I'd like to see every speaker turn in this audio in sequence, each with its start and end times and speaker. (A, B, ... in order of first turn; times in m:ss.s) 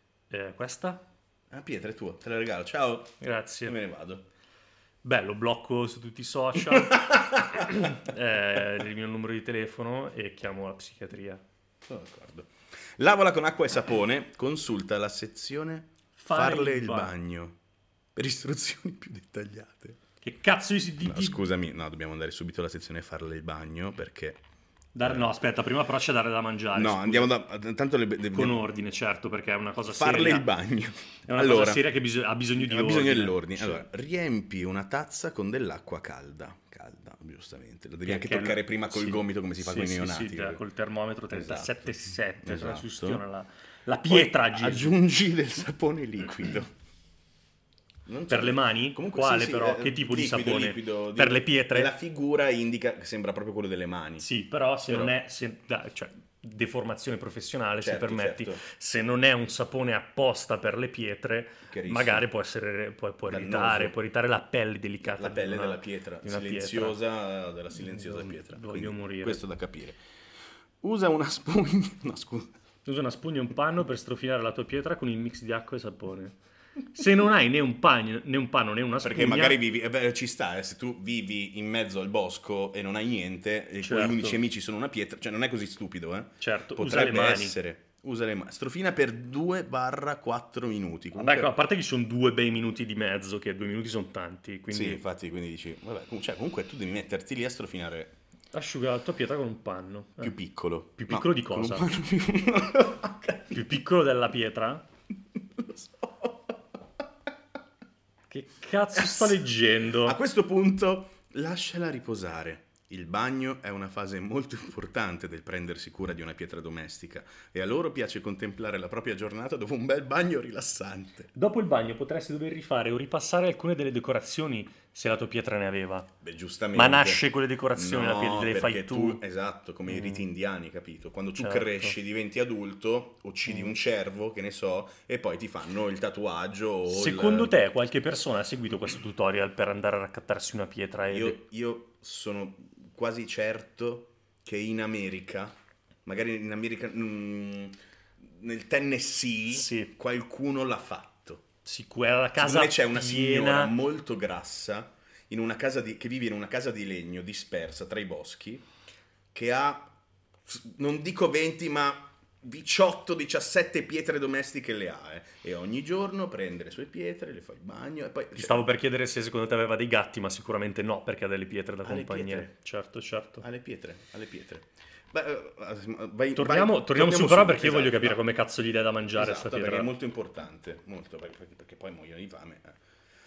0:00.3-0:01.0 A
0:01.5-0:04.2 B
0:03.2-0:03.8 A
0:05.0-0:11.4 A
0:06.7-0:07.7 B
0:11.8-0:17.6 B
0:16.2-0:17.1 A
0:18.1-0:20.0 B
0:20.2-0:21.4 A
0:21.0-0:24.4 B
0:24.9-0:27.3 A
0:25.0-0:25.3 B
0:26.7-0:28.6 B
0:28.3-0:30.5 A
0:29.8-0:31.9 B
0:31.3-0:33.8 A
0:32.6-0:40.6 B
0:38.0-0:44.9 A
0:41.3-0:43.2 B
0:44.0-0:46.7 B
0:48.0-0:54.2 B
0:48.3-0:51.9 A
0:54.2-1:07.0 A
0:54.9-0:55.1 B
0:57.8-0:58.6 B
1:01.7-1:02.3 B
1:03.3-1:04.0 B
1:05.0-1:10.0 B
1:07.7-1:09.4 A
1:10.8-1:12.5 B
1:12.8-1:16.3 A
1:16.9-1:19.6 A
1:19.0-1:31.5 B
1:23.8-1:24.4 A
1:26.4-1:27.6 A
1:31.1-1:35.0 A
1:34.7-1:38.2 B
1:38.5-1:40.3 A
1:40.2-1:43.4 B
1:41.0-1:41.9 A
1:43.4-1:44.8 A
1:45.6-1:46.6 B
1:48.3-1:50.2 A
1:48.9-2:01.3 B
2:01.3-2:06.1 A
2:06.2-2:17.5 B
2:06.7-2:09.2 A
2:09.8-2:10.3 A
2:11.4-2:11.9 A
2:13.4-2:13.7 A
2:16.9-2:21.4 A
2:21.1-2:31.4 B
2:29.5-2:29.9 A
2:31.6-2:33.8 A
2:32.4-2:38.6 B
2:39.3-2:39.9 B
2:40.4-2:48.7 B
2:48.3-2:53.4 A
2:51.8-2:52.5 B
2:53.4-2:58.2 B
2:56.3-2:59.9 A
2:59.1-3:02.8 B